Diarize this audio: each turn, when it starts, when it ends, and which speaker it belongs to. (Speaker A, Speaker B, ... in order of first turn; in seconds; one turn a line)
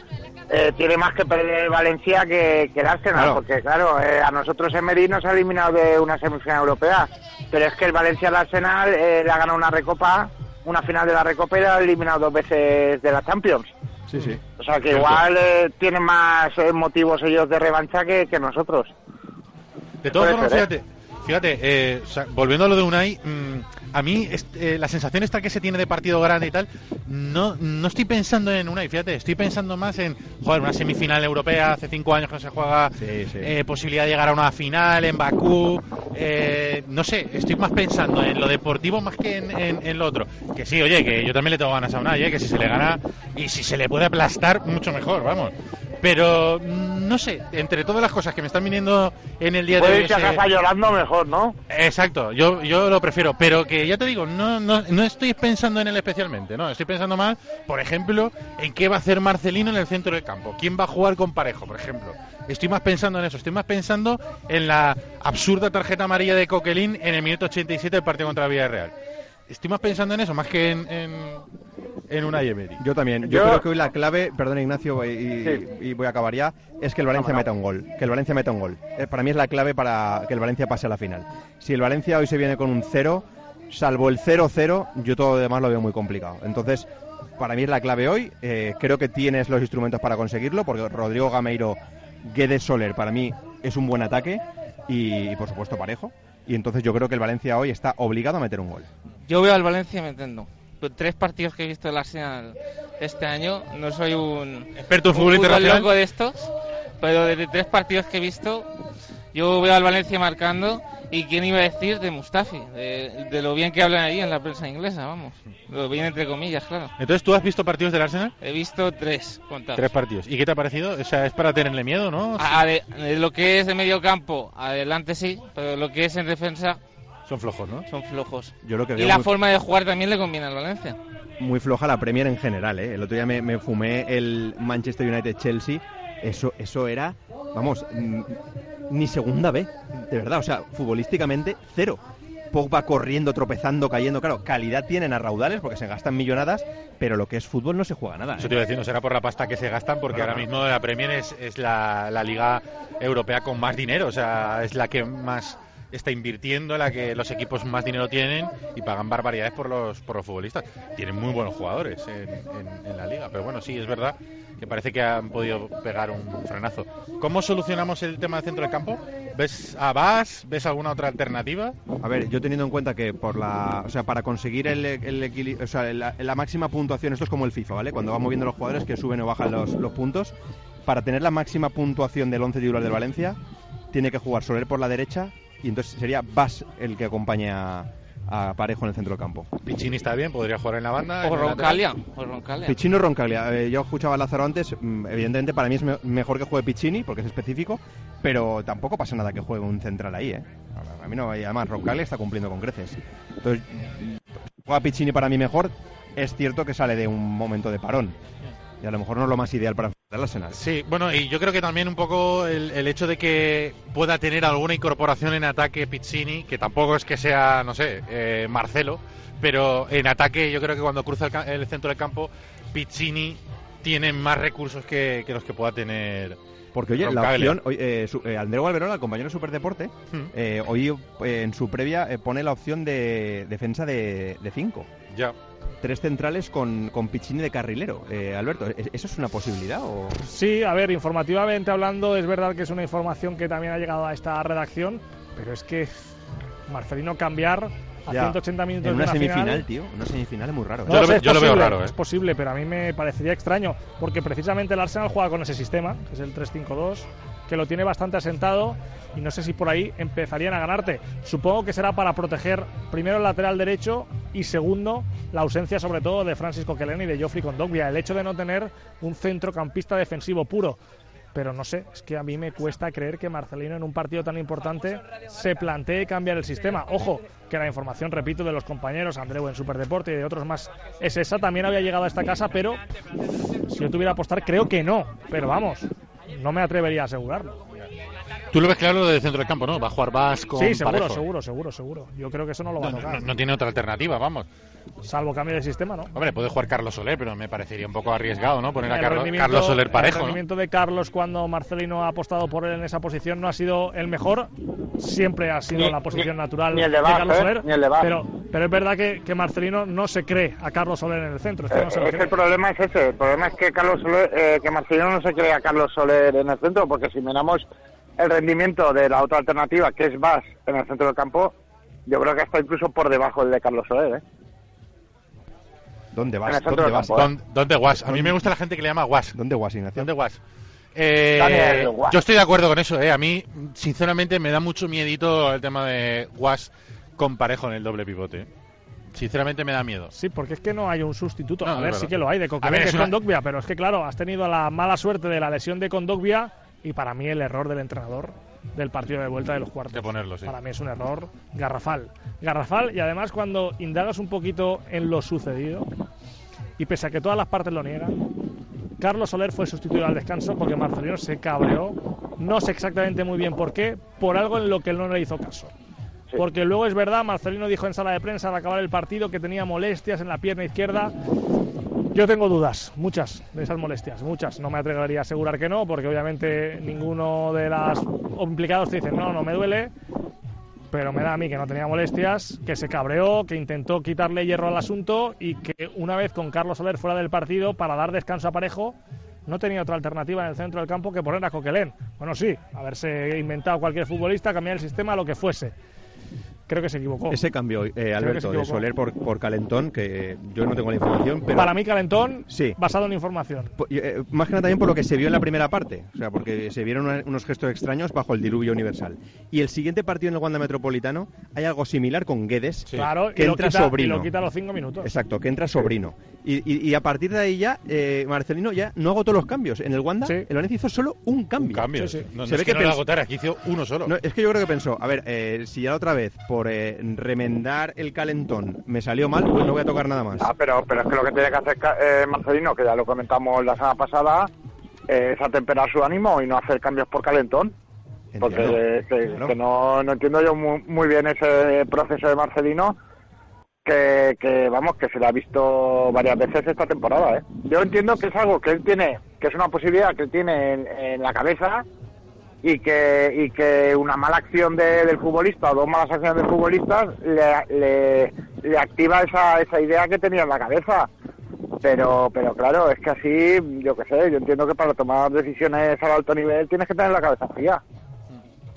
Speaker A: 0.5-13.7
Speaker B: 3.1-3.4
Speaker B: 14.1-14.4
Speaker A: 14.6-18.9
Speaker C: 14.9-15.2
Speaker C: 20.0-50.4
Speaker A: 20.1-20.7
Speaker B: 33.0-33.5
Speaker A: 49.7-51.6
Speaker C: 51.7-68.9
Speaker C: 69.5-71.4
Speaker C: 72.1-72.8
Speaker B: 72.8-86.9
Speaker A: 73.2-73.6
Speaker A: 77.2-77.4
Speaker B: 87.4-98.9
Speaker D: 99.2-108.7
Speaker C: 104.8-105.9
Speaker D: 109.3-116.9
Speaker C: 117.0-118.3
Speaker D: 118.4-119.9
Speaker C: 119.7-122.6
Speaker D: 122.4-126.8
Speaker C: 127.3-127.8
Speaker D: 127.9-131.0
Speaker B: 128.6-129.3
Speaker B: 131.4-138.4
Speaker B: 138.9-142.0
Speaker B: 142.5-148.6
Speaker C: 148.4-171.8
Speaker B: 150.1-150.5
Speaker B: 172.0-180.3
Speaker B: 180.8-183.4
Speaker B: 183.9-189.5
Speaker C: 189.6-191.8
Speaker D: 191.2-192.8
Speaker B: 192.6-208.2
Speaker B: 208.8-210.6
Speaker C: 210.5-226.4
Speaker B: 226.7-234.9
Speaker C: 227.0-227.6
Speaker B: 235.8-240.2
Speaker E: 240.2-245.9
Speaker E: 246.7-249.6
Speaker B: 248.1-251.0
Speaker C: 250.9-251.9
Speaker E: 250.9-270.8
Speaker E: 271.3-282.8
Speaker E: 283.7-287.6
Speaker C: 288.5-291.2
Speaker E: 290.5-293.3
Speaker C: 292.8-294.5
Speaker E: 295.0-296.1
Speaker C: 296.1-300.4
Speaker E: 298.9-312.3
Speaker A: 306.7-308.1
Speaker A: 311.7-317.6
Speaker A: 318.2-321.5
Speaker A: 322.1-324.2
Speaker B: 326.1-327.3
Speaker A: 326.5-327.3
Speaker C: 327.1-329.4
Speaker B: 328.0-328.4
Speaker B: 329.3-330.1
Speaker C: 329.9-330.4
Speaker C: 330.9-338.5
Speaker A: 331.4-332.2
Speaker C: 339.1-340.1
Speaker E: 340.1-355.9
Speaker C: 341.6-343.1
Speaker C: 349.9-350.5
Speaker E: 356.8-358.2
Speaker E: 359.0-365.7
Speaker E: 366.4-371.1
Speaker E: 372.1-379.9
Speaker E: 380.9-388.9
Speaker E: 389.5-395.7
Speaker E: 396.7-397.4
Speaker B: 397.3-401.7
Speaker E: 398.2-398.8
Speaker E: 401.6-403.7
Speaker B: 402.5-402.8
Speaker B: 403.8-414.3
Speaker E: 412.9-415.1
Speaker B: 415.0-423.0
Speaker C: 421.6-424.1
Speaker E: 421.9-422.2
Speaker B: 424.0-430.5
Speaker A: 430.4-434.5
Speaker A: 435.1-437.7
Speaker B: 438.3-439.5
Speaker A: 438.4-443.0
Speaker A: 443.8-451.8
Speaker A: 452.6-461.1
Speaker A: 461.8-467.8